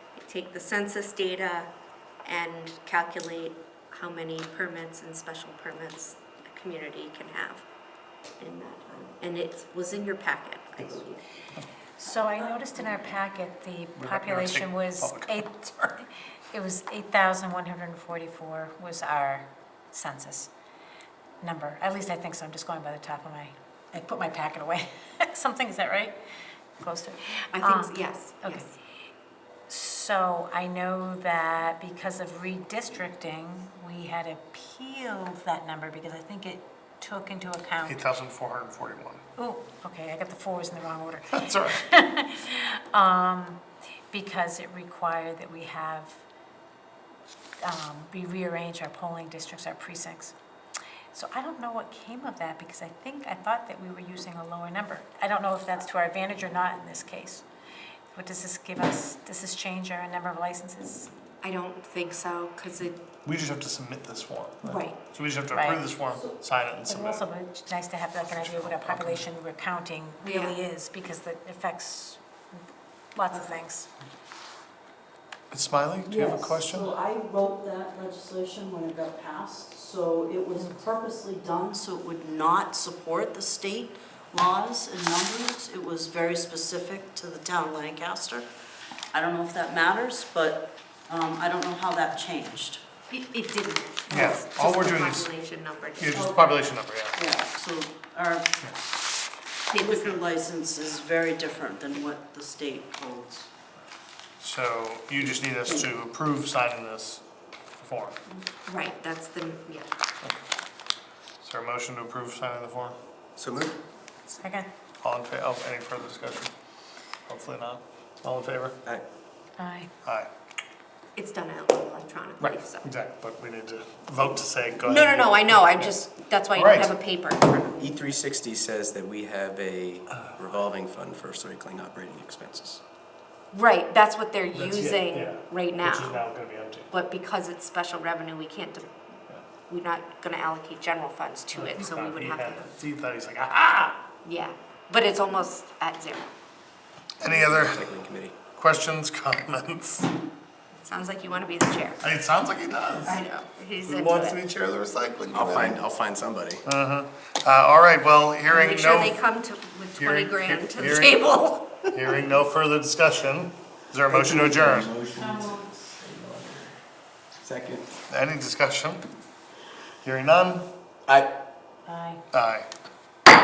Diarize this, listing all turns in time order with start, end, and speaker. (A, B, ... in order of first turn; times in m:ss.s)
0:00.2-0:01.7 A
0:02.2-0:07.6 A
0:08.4-0:11.2 A
0:12.0-0:20.5 B
0:14.0-0:15.9 C
0:21.4-0:26.2 B
0:26.8-0:28.7 B
0:27.5-0:28.7 A
0:29.7-0:38.0 B
0:37.8-0:39.2 C
0:39.4-0:46.2 B
0:41.3-0:41.8 C
0:47.6-0:50.3 B
0:51.1-0:57.4 B
0:58.1-1:01.1 B
1:01.4-1:03.0 A
1:03.2-1:07.2 C
1:04.6-1:05.0 A
1:05.5-1:05.8 B
1:06.8-1:12.2 B
1:08.2-1:09.2 C
1:10.2-1:10.6 A
1:13.1-1:13.9 B
1:15.5-1:16.9 C
1:16.0-1:28.5 D
1:29.1-1:32.8 D
1:33.1-1:36.4 A
1:34.1-1:35.3 C
1:36.0-1:37.2 C
1:36.1-1:36.4 D
1:37.1-1:38.6 D
1:39.7-1:43.5 D
1:39.7-1:40.2 A
1:44.4-1:47.2 C
1:45.5-1:45.9 D
1:47.7-1:48.2 C
1:48.6-1:49.9 A
1:51.4-1:53.0 C
1:53.4-1:53.8 E
1:54.3-1:54.7 B
1:55.0-1:56.5 C
1:57.3-1:58.8 C
1:59.6-1:59.9 B
2:00.0-2:00.3 C
2:01.2-2:02.8 A
2:02.4-2:06.0 C
2:04.8-2:08.0 A
2:06.5-2:06.9 C
2:07.8-2:12.8 E
2:13.5-2:16.2 A
2:14.5-2:16.9 C
2:16.9-2:18.9 A
2:19.7-2:22.7 A
2:21.5-2:24.0 C
2:24.2-2:26.3 A
2:27.2-2:27.9 C
2:27.2-2:28.4 E
2:28.6-2:30.1 C
2:30.8-2:32.0 A
2:32.0-2:33.2 C
2:33.0-2:34.4 A
2:33.8-2:35.8 C
2:35.3-2:36.6 E
2:36.6-2:39.2 C
2:38.5-2:41.9 A
2:40.0-2:41.2 C
2:41.9-2:44.9 C
2:44.1-2:46.7 E
2:45.2-2:45.6 D
2:47.4-2:47.8 E
2:48.1-2:49.0 C
2:50.0-2:50.6 C
2:51.8-2:52.2 B
2:52.3-2:52.7 C